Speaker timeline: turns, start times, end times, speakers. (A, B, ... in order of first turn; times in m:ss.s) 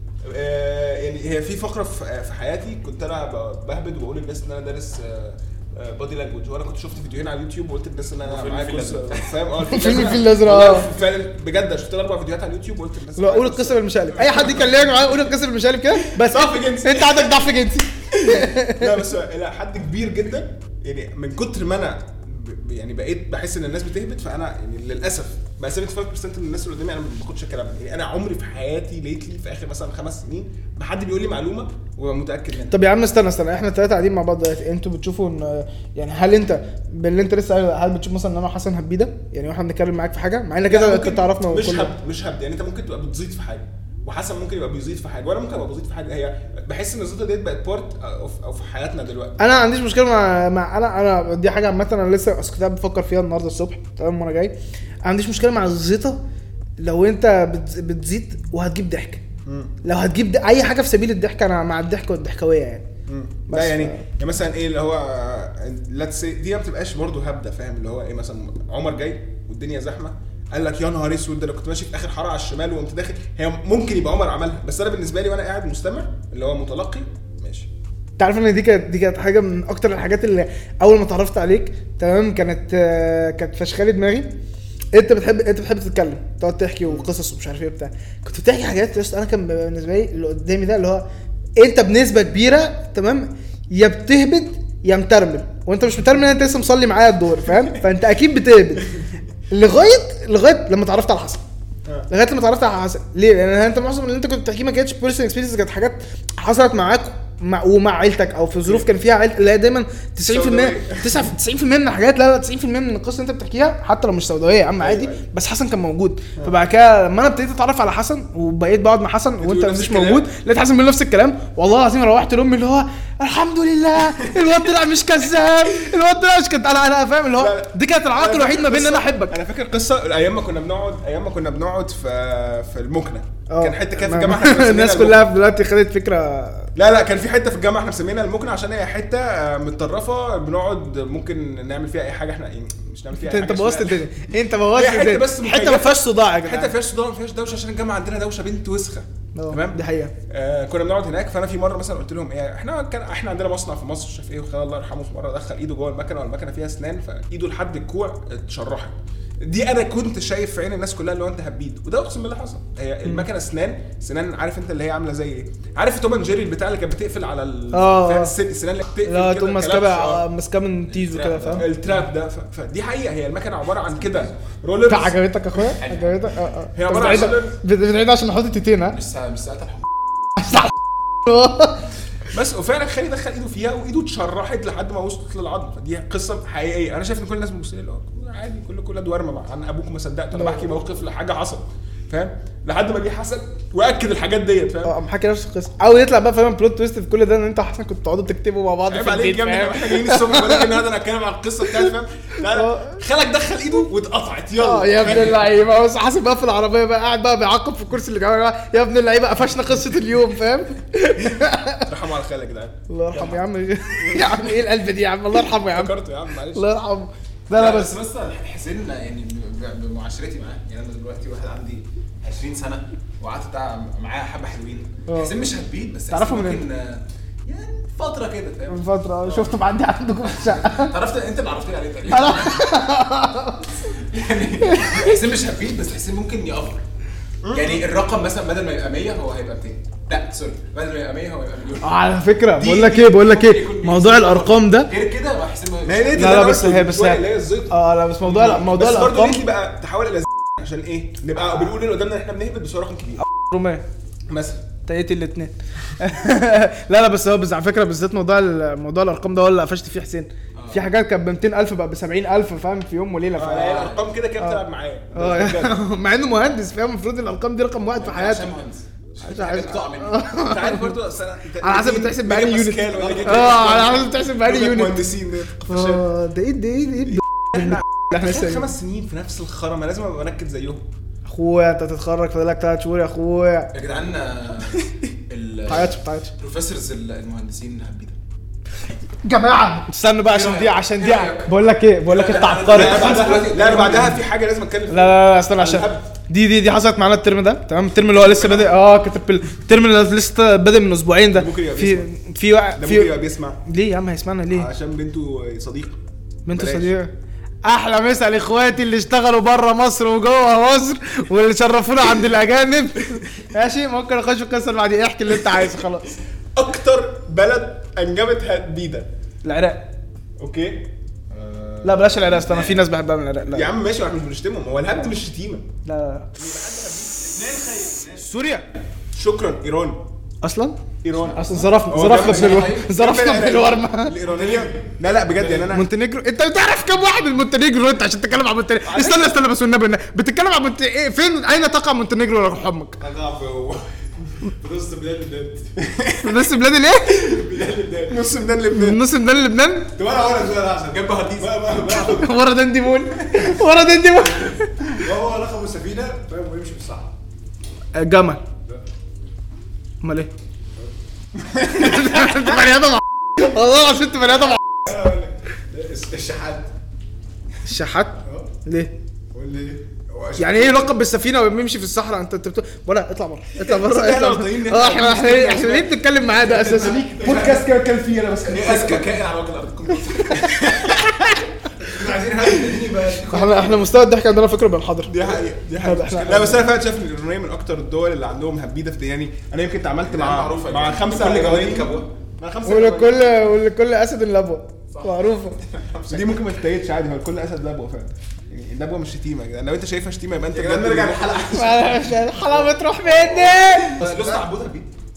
0:00.2-0:15.2 A
0:08.2-0:09.4 B
0:09.6-0:10.9 C
0:13.2-0:19.0 C
0:16.0-0:17.5 A
0:18.1-0:32.7 A
0:32.7-0:41.9 C
0:40.7-0:49.4 A
0:49.4-0:56.2 C
0:56.8-0:59.2 C
0:59.4-0:59.7 A
0:59.8-1:02.8 C
1:03.1-1:17.7 A
1:03.5-1:04.0 C
1:18.2-1:24.3 C
1:24.9-1:31.0 C
1:31.6-1:38.9 C
1:39.5-1:41.4 C
1:42.1-2:09.3 C
1:50.3-1:51.3 A
1:54.8-1:55.2 A
1:59.4-2:00.3 A
2:07.4-2:15.3 A
2:13.5-2:16.7 C
2:16.7-2:50.2 A
2:23.1-2:26.7 C
2:29.3-2:30.1 C
2:47.7-2:48.3 C
2:49.0-2:51.7 C
2:50.9-2:51.8 B
2:51.5-2:55.2 A
2:54.8-2:59.0 C
2:55.8-2:56.4 B
2:56.7-2:57.6 A
2:58.9-2:59.8 B
3:01.3-3:01.7 C
3:02.2-3:14.9 A
3:10.4-3:10.7 C
3:14.8-3:20.7 C
3:18.9-3:25.4 A
3:22.4-3:23.0 C
3:24.6-3:31.9 C
3:31.8-3:33.4 A
3:32.9-3:35.9 C
3:33.9-3:34.5 A
3:35.3-3:36.7 A
3:36.5-3:38.0 C
3:37.5-3:49.5 B
3:45.1-3:45.3 C
3:46.1-3:46.6 C
3:48.7-3:50.9 C
3:50.4-3:52.7 B
3:52.1-3:54.0 C
3:53.9-3:56.8 B
3:54.6-3:55.2 C
3:57.4-3:57.8 A
3:57.5-4:02.0 B
4:01.8-4:04.9 C
4:02.6-4:06.5 B
4:05.8-4:13.2 A
4:06.2-4:09.4 C
4:13.3-4:13.8 C
4:14.3-4:14.6 A
4:14.8-4:24.6 C
4:20.5-4:20.8 B
4:23.4-4:25.8 A
4:23.6-4:24.0 B
4:25.1-4:28.5 C
4:28.0-4:30.3 B
4:29.2-4:30.9 C
4:30.4-4:36.1 A
4:31.6-4:35.0 C
4:33.0-4:34.0 B
4:35.7-4:38.6 C
4:37.1-4:40.9 A
4:41.2-4:43.7 C
4:43.7-4:48.2 B
4:45.7-4:46.3 C
4:49.2-4:53.4 C
4:50.3-4:54.2 B
4:52.7-4:56.1 A
4:54.9-5:04.7 C
4:58.1-4:58.8 A
5:01.3-5:02.1 A
5:02.7-5:03.6 A
5:04.5-5:06.9 A
5:06.5-5:07.1 C
5:07.6-5:16.2 C
5:16.5-5:19.1 A
5:19.4-5:19.9 C
5:20.4-5:20.9 A
5:21.3-5:22.8 B
5:21.8-5:23.7 C
5:23.5-5:25.7 A
5:25.8-5:26.3 C
5:26.3-5:27.8 A
5:27.3-5:28.2 B
5:28.1-5:28.7 C
5:29.1-5:30.0 A
5:30.4-5:34.1 C
5:31.0-5:35.8 A
5:31.9-5:33.0 B
5:34.3-5:35.7 B
5:35.7-5:43.0 C
5:38.8-5:39.4 A
5:43.0-5:46.5 A
5:46.2-5:47.4 C
5:47.1-5:49.0 A
5:48.7-5:49.9 C
5:50.0-5:52.4 A
5:50.9-5:51.6 B
5:51.8-5:55.1 C
5:55.0-5:55.5 A
5:57.9-5:58.4 C
6:00.0-6:00.3 C
6:01.4-6:02.5 A
6:01.7-6:04.6 C
6:04.9-6:05.3 A
6:05.7-6:06.7 B
6:07.6-6:08.9 C
6:10.4-6:17.1 C
6:10.4-6:10.8 B
6:13.6-6:19.2 A
6:16.5-6:17.7 B
6:18.4-6:21.0 B
6:20.2-6:21.2 A
6:21.8-6:23.9 B
6:23.3-6:25.2 C
6:25.1-6:33.4 A
6:25.8-6:26.6 C
6:30.0-6:32.1 B
6:32.6-6:35.6 C
6:34.9-6:36.5 B
6:36.1-6:42.0 A
6:40.5-6:42.5 B
6:41.5-6:44.0 C
6:43.4-6:44.1 A
6:43.8-6:44.9 B